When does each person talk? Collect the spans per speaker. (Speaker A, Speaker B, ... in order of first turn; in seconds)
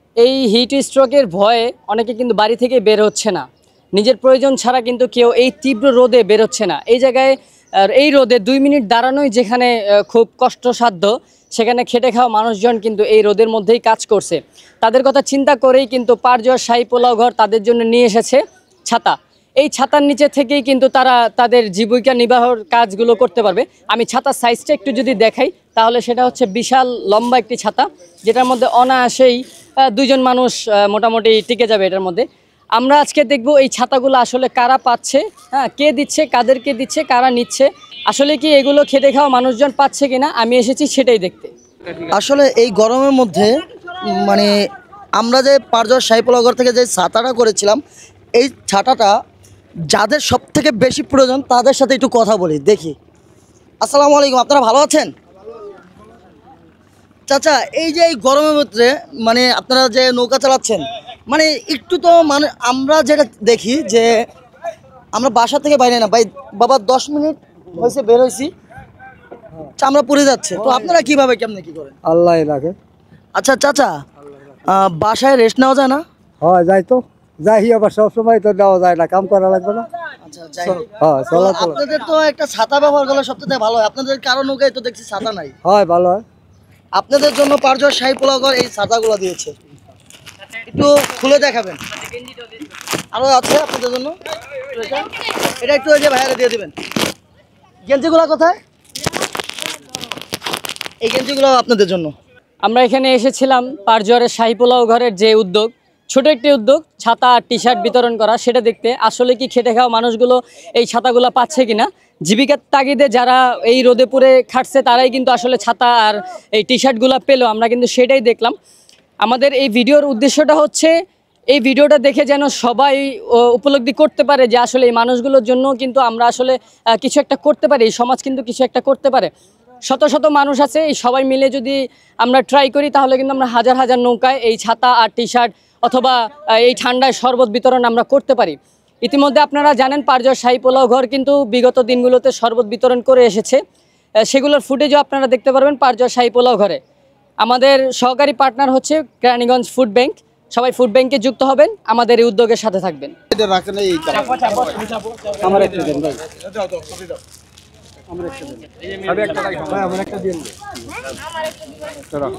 Speaker A: 0.2-3.5, 4.0-32.2, 32.8-41.5, 102.6-118.5, 119.2-120.9, 121.5-129.3, 129.9-143.6, 144.2-146.8, 147.4-153.2
Speaker B: 42.1-43.5, 44.1-44.5, 45.2-47.8, 48.4-49.1, 49.9-53.0, 53.8-55.1, 57.3-64.2, 65.1-68.5, 69.8-72.0, 73.3-74.0, 74.7-76.0, 80.2-80.8, 81.3-85.5, 87.0-89.5, 90.7-91.8, 93.1-94.1, 95.6-96.7, 97.9-98.5, 101.0-102.1
Speaker C: 72.0-72.8, 76.4-79.9, 80.7-81.8, 85.6-86.2, 155.5-156.1, 159.2-160.5